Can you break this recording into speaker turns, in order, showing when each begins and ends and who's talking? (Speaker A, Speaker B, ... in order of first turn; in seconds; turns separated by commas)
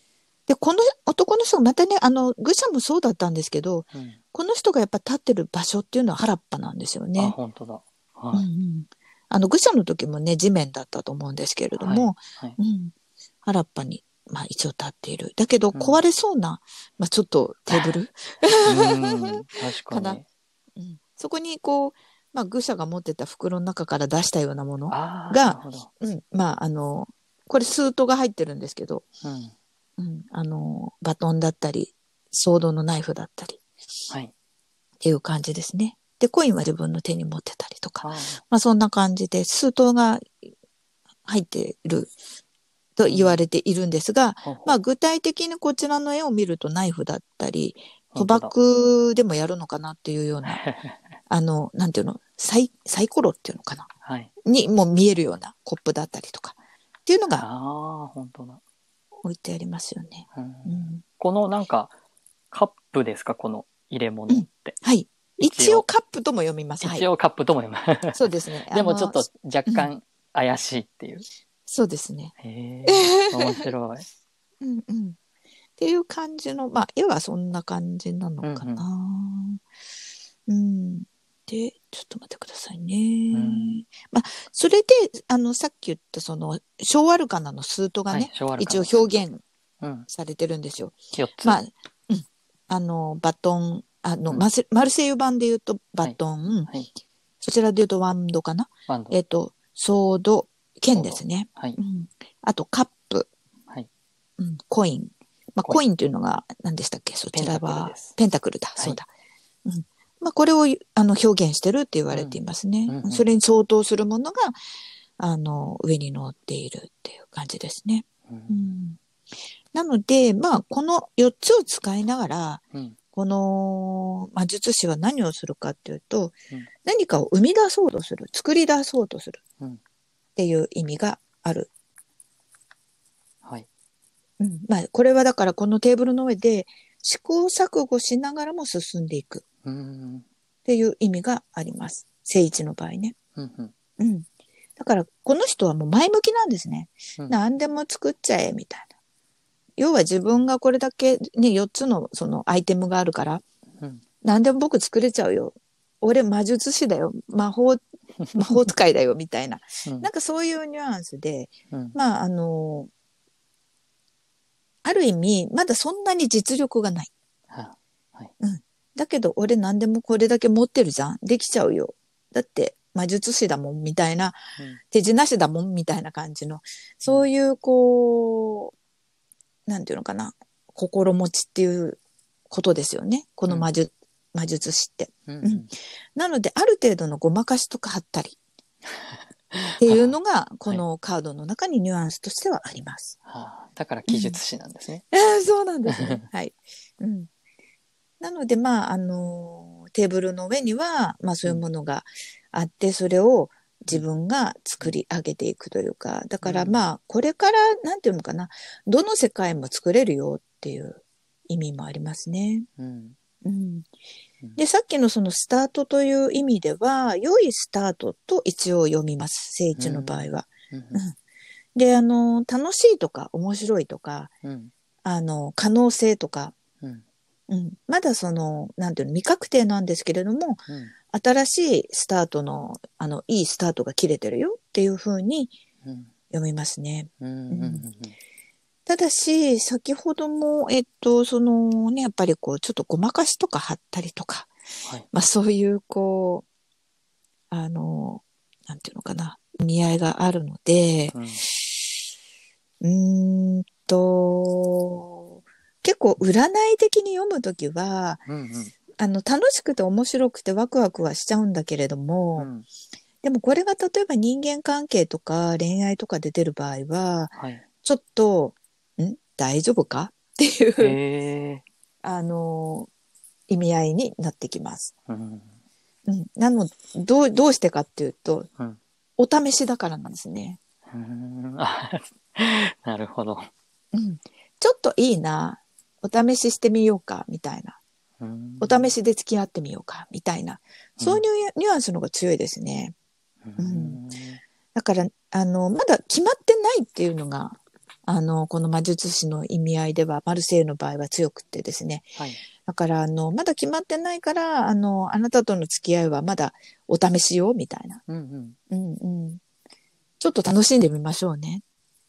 Speaker A: 0.5-7.3, Speaker B: 7.2-8.4, Speaker A: 8.3-19.3, Speaker B: 11.8-12.6, Speaker B: 15.7-16.0, Speaker B: 18.6-20.2, Speaker A: 19.9-20.2, Speaker A: 20.8-29.1, Speaker B: 24.9-25.9, Speaker B: 29.2-29.5, Speaker A: 30.0-33.6, Speaker A: 35.0-40.3, Speaker B: 38.0-38.4, Speaker A: 41.2-42.1, Speaker A: 43.0-50.6, Speaker B: 43.1-43.4, Speaker B: 44.4-44.8, Speaker B: 48.1-48.5, Speaker B: 50.4-51.2, Speaker A: 51.3-53.9, Speaker B: 54.0-54.3, Speaker A: 54.4-57.4, Speaker B: 57.3-58.6, Speaker A: 59.2-61.0, Speaker B: 60.3-61.9, Speaker B: 62.5-64.8, Speaker A: 64.3-67.0, Speaker B: 65.4-65.9, Speaker B: 66.8-71.2, Speaker A: 68.2-69.9, Speaker A: 71.7-72.3, Speaker B: 72.4-74.0, Speaker A: 72.8-73.7, Speaker A: 74.6-75.2, Speaker A: 75.8-79.6, Speaker B: 78.4-78.8, Speaker A: 80.5-89.4, Speaker B: 83.3-83.8, Speaker B: 88.1-89.0, Speaker B: 89.8-90.1, Speaker A: 90.1-96.7, Speaker B: 91.1-91.6, Speaker B: 96.0-96.9, Speaker A: 97.4-103.3, Speaker B: 98.9-99.1, Speaker B: 100.9-101.8, Speaker A: 104.4-109.1, Speaker B: 107.3-108.1, Speaker A: 109.6-114.5, Speaker B: 112.1-113.2, Speaker A: 115.2-119.0, Speaker B: 118.3-118.6, Speaker A: 119.7-129.4, Speaker A: 130.3-131.7, Speaker A: 134.4-139.4, Speaker B: 139.6-140.2, Speaker A: 140.6-143.2, Speaker B: 143.3-143.7, Speaker A: 144.0-144.2, Speaker A: 144.8-148.9, Speaker A: 149.8-153.4, Speaker A: 154.2-157.8, Speaker B: 158.2-158.7, Speaker A: 158.3-162.9, Speaker A: 164.8-167.1, Speaker B: 167.5-168.3, Speaker A: 168.4-174.4, Speaker A: 174.9-178.7, Speaker A: 179.7-182.0, Speaker A: 182.5-188.4, Speaker B: 185.3-185.7, Speaker B: 188.8-190.1, Speaker A: 189.8-193.2, Speaker B: 193.2-195.0, Speaker A: 194.1-194.4, Speaker A: 195.1-197.3, Speaker B: 195.8-196.2, Speaker A: 198.2-212.7, Speaker B: 206.4-206.9, Speaker B: 212.8-213.2, Speaker A: 213.4-213.9, Speaker A: 214.6-221.1, Speaker B: 219.8-221.0, Speaker A: 221.7-224.3, Speaker B: 224.4-224.7, Speaker A: 225.0-226.5, Speaker A: 227.5-235.5, Speaker B: 230.7-230.9, Speaker B: 235.8-236.1, Speaker A: 236.3-237.8, Speaker B: 237.2-238.2, Speaker A: 238.9-244.5, Speaker A: 245.1-246.4, Speaker A: 247.5-251.2, Speaker B: 251.1-251.4, Speaker A: 252.8-255.3, Speaker A: 255.8-258.2, Speaker B: 258.3-258.7, Speaker A: 258.9-262.5, Speaker B: 262.4-262.6, Speaker A: 263.2-271.0, Speaker B: 267.3-267.6, Speaker B: 270.8-271.6, Speaker A: 272.0-272.9, Speaker A: 273.5-274.9, Speaker B: 275.1-275.5, Speaker A: 276.1-278.5, Speaker A: 279.2-280.6, Speaker B: 280.9-283.5, Speaker A: 283.9-287.8, Speaker B: 288.2-288.9, Speaker A: 288.6-292.9, Speaker B: 291.0-291.2, Speaker B: 293.4-294.4, Speaker A: 293.6-294.0, Speaker A: 294.7-308.0, Speaker B: 302.1-302.4, Speaker B: 308.1-308.6, Speaker A: 308.7-309.4, Speaker A: 310.2-311.6